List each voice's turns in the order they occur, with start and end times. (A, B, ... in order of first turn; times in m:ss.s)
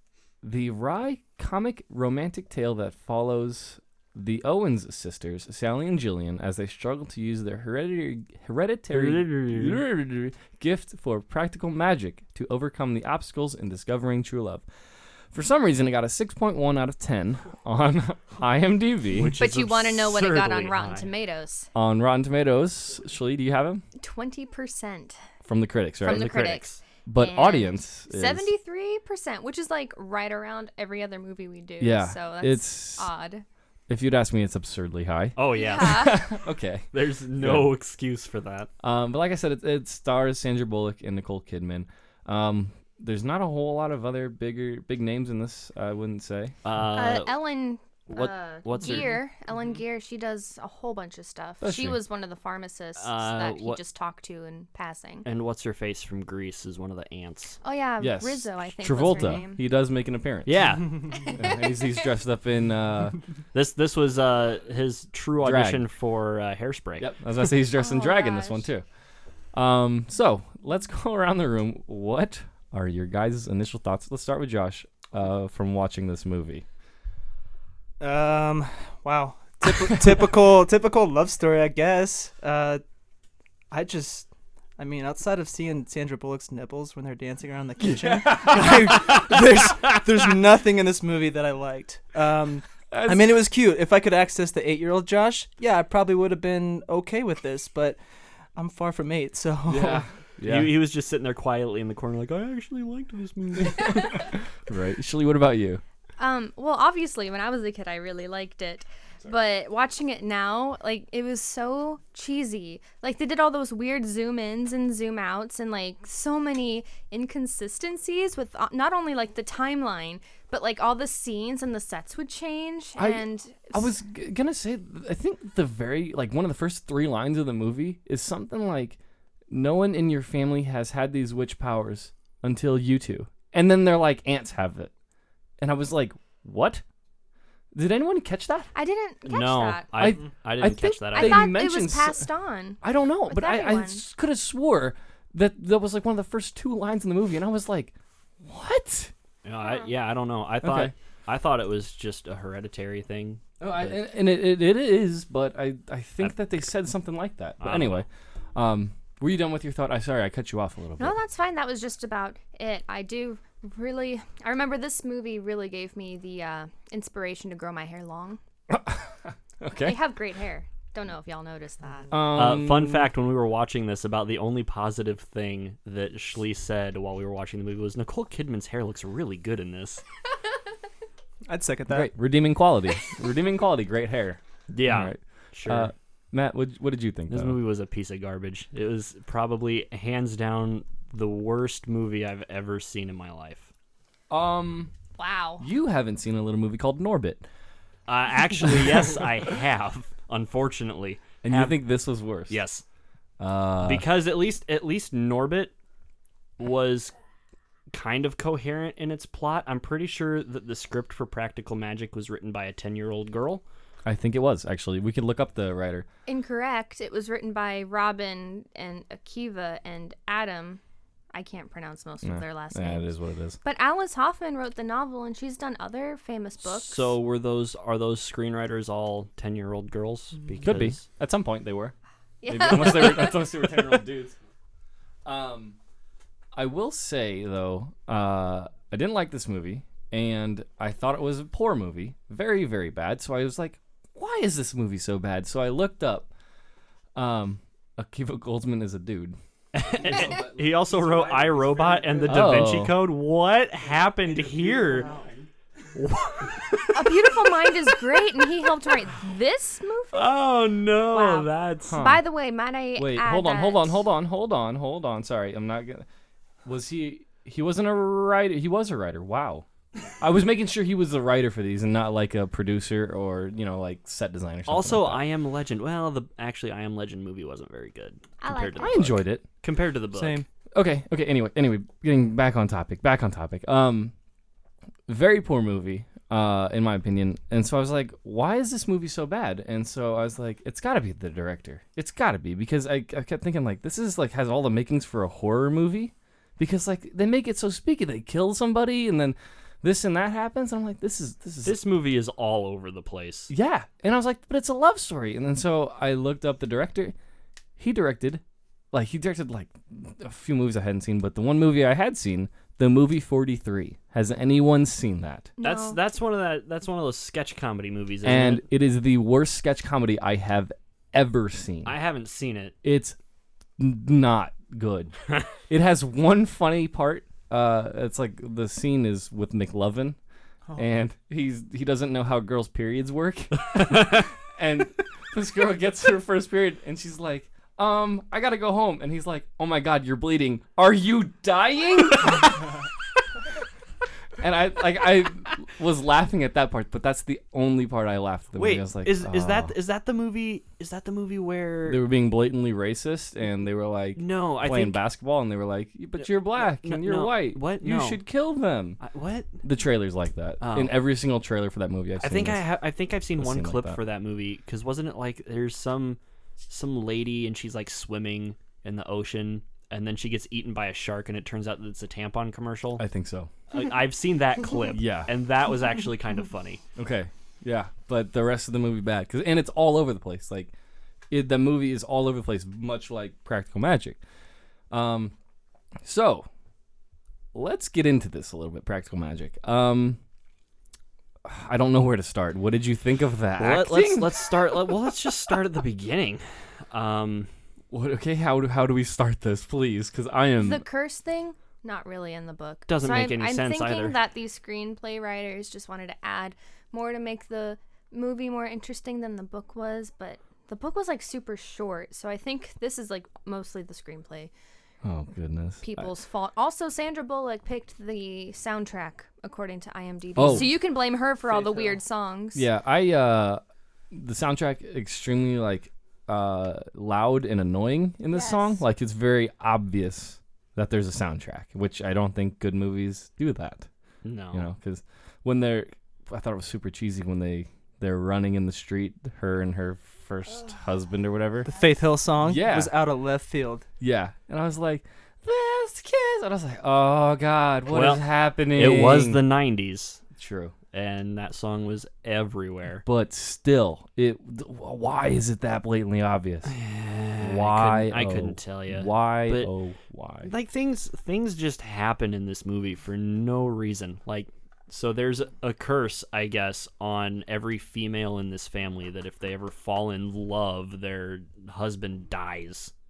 0:00.4-0:14.6 A
0:08.9-0:09.8 B
0:15.3-0:19.4 A
0:19.1-0:21.1 B
0:19.4-0:21.7 C
0:21.7-0:23.8 A
0:24.0-0:25.2 C
0:25.4-0:26.4 A
0:26.0-0:33.4 C
0:26.0-0:26.8 B
0:27.0-0:28.5 A
0:31.8-0:33.1 A
0:33.9-0:36.9 A
0:35.4-0:36.1 B
0:35.5-0:36.2 C
0:36.9-0:38.7 B
0:37.4-0:37.7 A
0:38.8-0:46.5 A
0:46.6-0:47.4 B
0:46.9-0:55.2 C
0:48.1-0:49.2 B
0:51.6-0:52.0 A
0:53.0-0:53.8 B
0:55.2-0:57.6 B
0:57.6-0:59.6 C
0:58.0-1:03.2 A
1:00.4-1:01.3 B
1:03.5-1:07.1 B
1:05.4-1:05.9 A
1:07.0-1:08.8 A
1:07.7-1:08.7 C
1:09.5-1:16.6 A
1:18.0-1:22.8 D
1:23.7-1:38.0 D
1:27.9-1:29.6 A
1:32.9-1:33.4 A
1:38.6-1:40.1 D
1:39.7-1:40.8 A
1:40.4-1:44.3 B
1:44.6-1:45.8 A
1:46.2-2:03.9 C
2:03.0-2:09.0 A
2:09.5-2:14.9 A
2:15.6-2:16.8 A
2:17.7-2:18.7 A
2:18.7-2:19.9 C
2:19.2-2:21.5 B
2:20.0-2:22.3 A
2:20.8-2:24.0 C
2:22.8-2:29.1 A
2:29.4-2:34.0 B
2:29.6-2:29.9 C
2:30.6-2:30.9 A
2:33.6-2:41.2 A
2:37.6-2:38.0 B
2:41.0-2:48.4 C
2:48.7-2:50.0 A
2:49.8-2:52.2 C
2:52.1-2:53.1 A
2:52.3-3:00.0 B
3:01.5-3:02.1 D
3:01.9-3:07.6 A
3:04.7-3:05.9 B
3:07.3-3:13.7 B
3:14.3-3:14.9 A
3:15.2-3:15.6 C
3:15.6-3:17.4 A
3:18.1-3:21.9 B
3:18.6-3:19.0 A
3:21.4-3:22.6 A
3:22.5-3:22.8 B
3:23.4-3:24.0 A
3:23.8-3:25.7 B
3:26.6-3:27.1 B
3:27.9-3:33.6 B
3:34.0-3:36.0 A
3:36.3-3:40.8 C
3:41.3-3:47.1 C
3:42.2-3:43.6 A
3:46.6-3:51.0 B
3:50.6-3:51.9 A
3:52.4-3:53.6 C
3:52.4-3:54.3 A
3:55.2-3:55.8 A
3:56.5-4:06.3 A
4:07.1-4:10.7 A
4:09.7-4:15.2 B
4:12.1-4:12.4 D
4:12.2-4:13.0 A
4:15.9-4:17.2 B
4:16.9-4:20.3 C
4:20.1-4:22.0 B
4:21.1-4:24.0 C
4:21.9-4:22.3 A
4:22.9-4:26.0 A
4:26.6-4:29.6 A
4:30.2-4:35.2 A
4:34.7-4:40.4 B
4:38.4-4:39.0 C
4:38.8-4:39.4 A
4:40.1-4:40.4 D
4:40.7-4:44.1 A
4:45.1-5:01.8 A
5:01.6-5:03.5 B
5:03.5-5:07.1 A
5:07.8-5:15.5 A
5:15.6-5:16.0 C
5:15.6-5:18.6 B
5:18.2-5:21.9 A
5:21.8-5:22.7 B
5:22.8-5:23.2 A
5:23.8-5:25.1 A
5:25.7-5:30.2 A
5:30.8-5:42.8 A
5:33.8-5:34.2 B
5:44.4-5:49.7 A
5:48.5-5:52.0 B
5:51.8-5:59.0 A
5:54.2-5:55.0 B
5:56.2-5:58.2 B
5:59.0-5:59.5 B
5:59.6-6:02.6 A
6:00.6-6:01.0 B
6:02.2-6:13.0 B
6:03.4-6:04.0 A
6:13.0-6:13.5 A
6:13.7-6:16.8 B
6:14.9-6:15.3 A
6:17.0-6:20.7 A
6:21.3-6:24.2 A
6:24.9-6:25.3 A
6:26.0-6:26.5 A
6:27.5-6:30.2 A
6:31.4-6:35.0 A
6:33.6-6:37.5 B
6:37.9-6:40.8 A
6:40.6-6:54.5 C
6:42.9-6:44.1 B
6:55.0-6:56.1 A
6:55.8-7:02.7 C
7:00.4-7:00.7 A
7:01.4-7:02.0 D
7:02.5-7:13.9 A
7:08.3-7:08.8 C
7:14.2-7:14.7 B
7:14.5-7:21.7 A
7:21.7-7:23.9 D
7:22.4-7:22.9 A
7:24.0-7:29.4 A
7:27.9-7:30.2 B
7:30.4-7:30.7 A
7:30.9-7:33.0 B
7:33.0-7:36.7 A
7:36.6-7:39.7 B
7:37.4-7:40.5 A
7:40.4-7:52.9 B